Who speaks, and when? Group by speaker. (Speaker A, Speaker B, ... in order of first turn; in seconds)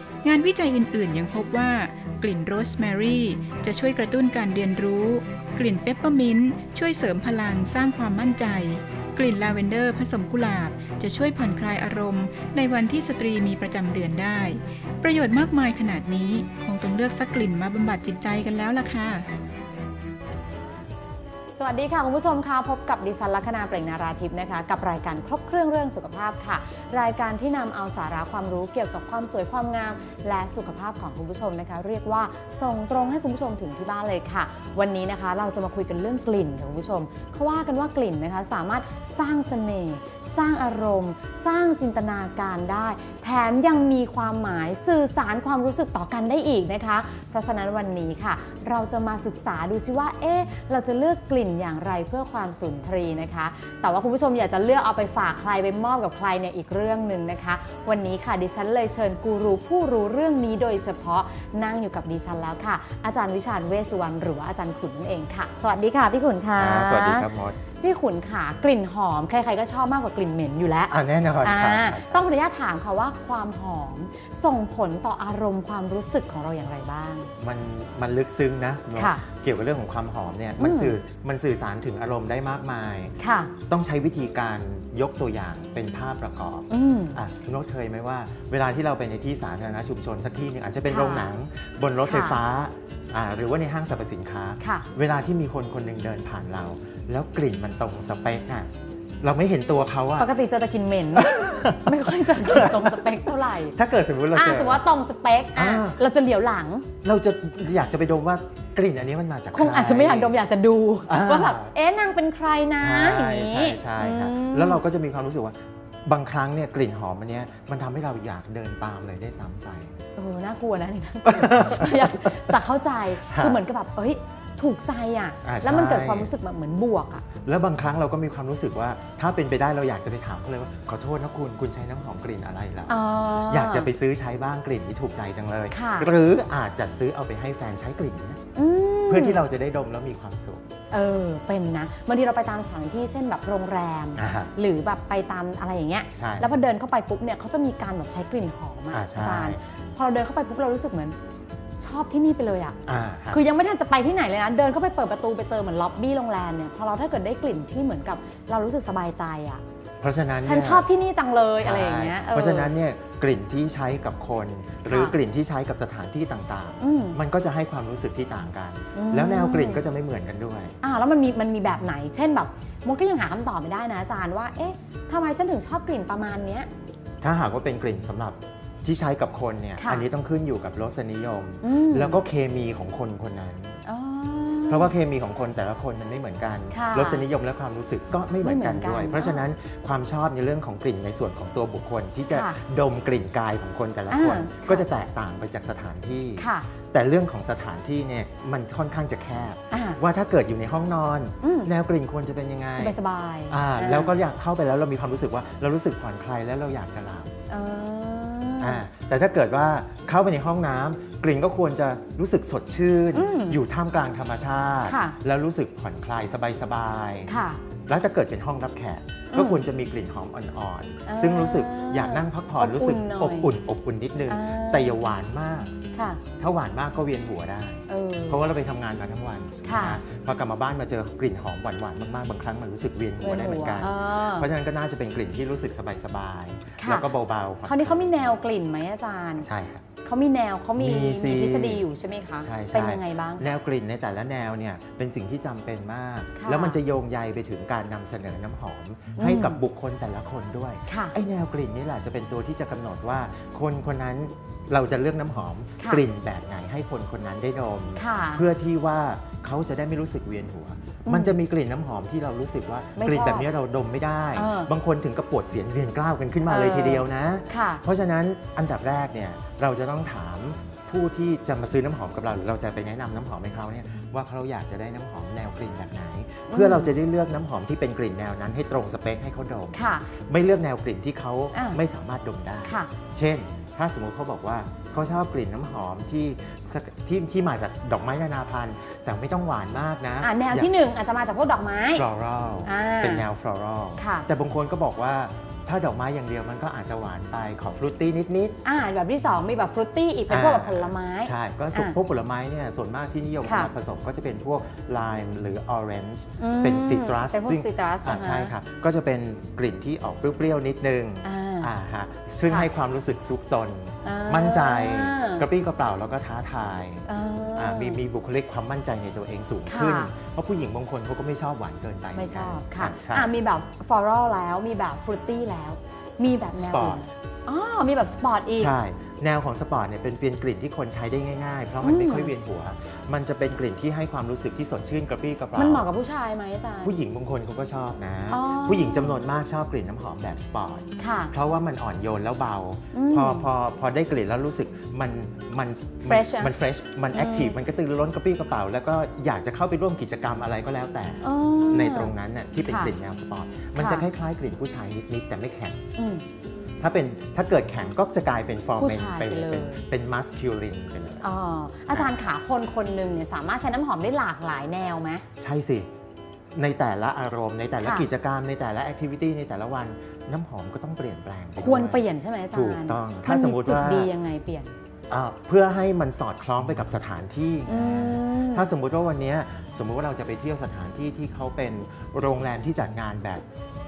Speaker A: 0.2-19.3
Speaker B: 21.6-77.3, 79.0-79.2, 80.6-81.0, 83.2-83.5, 86.7-87.2, 90.9-91.3, 92.0-92.4, 94.6-94.9, 100.2-103.8, 104.3-106.9, 109.5-114.8, 120.2-127.3, 132.9-133.9, 135.7-136.1, 138.6-139.4, 140.9-151.2, 151.8-152.8, 153.3-159.6, 160.4-162.7, 164.9-165.2, 166.8-167.2, 168.9-169.8, 170.8-176.7, 179.8-180.1, 181.6-182.2, 183.8-184.9, 186.7-187.2, 188.4-189.4, 192.3-192.6, 194.1-194.9, 196.4-196.7, 199.7-200.0, 201.4-201.7, 202.7-204.1, 207.5-208.8, 213.1-213.6, 214.8-215.2, 217.3-217.6, 219.3-219.6, 221.1-223.5, 224.3-225.0, 225.9-226.2, 227.9-228.4, 229.6-230.0, 233.2-234.5, 236.8-237.1, 237.7-239.5, 240.0-243.4, 246.4-246.8, 249.2-249.6, 250.9-251.2, 258.0-258.4, 261.1-261.4, 262.9-263.5, 264.4-264.7, 266.4-267.8, 276.5-276.9, 279.7-280.1, 281.5-281.8, 282.6-282.9, 290.2-292.1, 292.6-293.2, 294.0-294.3, 298.6-302.0, 303.4-303.7, 306.4-308.5, 311.2-311.7, 314.0-315.5, 317.1-318.0, 319.7-320.1, 322.1-328.7, 331.8-332.3, 335.6-336.9, 338.3-339.2, 341.0-341.3, 342.9-343.5, 346.1-346.5, 347.1-347.6, 351.2-352.9, 353.8-354.1, 356.0-356.2, 358.8-359.9, 361.2-365.2, 367.8-368.1, 371.6-374.8, 377.7-378.7
Speaker C: 66.6-67.6, 70.9-72.2, 77.4-83.1, 83.7-98.7, 99.2-100.3, 101.2-104.8, 105.5-106.0, 107.0-110.4, 111.1-111.7, 112.8-119.9, 121.3-122.5, 123.2-123.6, 125.4-126.3, 127.4-138.4, 139.1-140.6, 144.2-144.5, 146.2-146.5, 148.9-149.6, 152.9-153.4, 160.0-160.9, 161.6-170.8, 177.2-183.8, 184.7-203.0, 203.5-207.3, 208.6-217.3, 217.9-225.7, 226.4-238.4, 239.4-239.9, 240.8-241.8, 242.4-290.7, 291.9-298.6, 300.3-323.3, 326.4-327.1, 328.5-335.9, 336.8-355.8, 356.8-361.3, 365.4-365.9, 366.5-374.1, 375.1-383.4